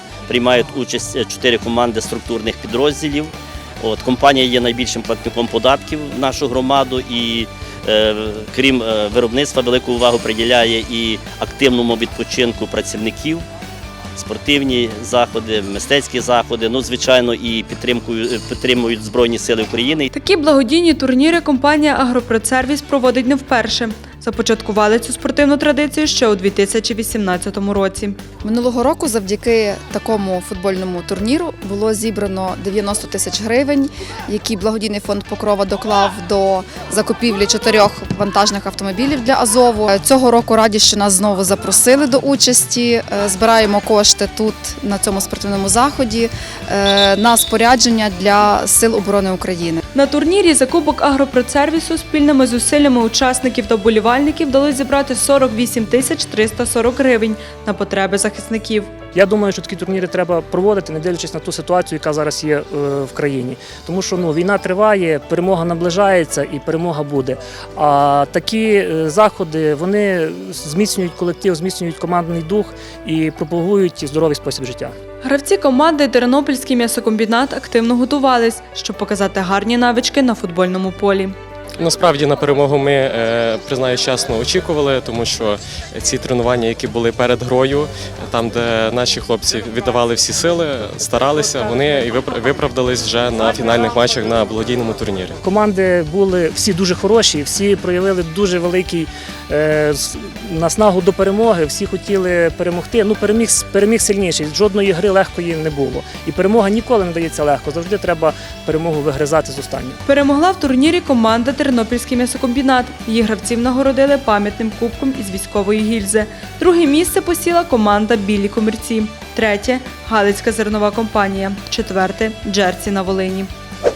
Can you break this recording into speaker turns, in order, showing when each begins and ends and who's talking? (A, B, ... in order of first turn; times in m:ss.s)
0:00.3-0:03.3 A
0:03.8-0:13.4 A
0:14.2-0:20.1 A
0:20.1-0:28.2 B
0:28.4-0:49.8 C
0:50.0-0:58.9 B
0:59.1-1:15.0 D
1:15.2-1:21.4 B
1:21.8-1:35.4 E
1:35.4-1:50.0 D
1:50.0-2:03.5 B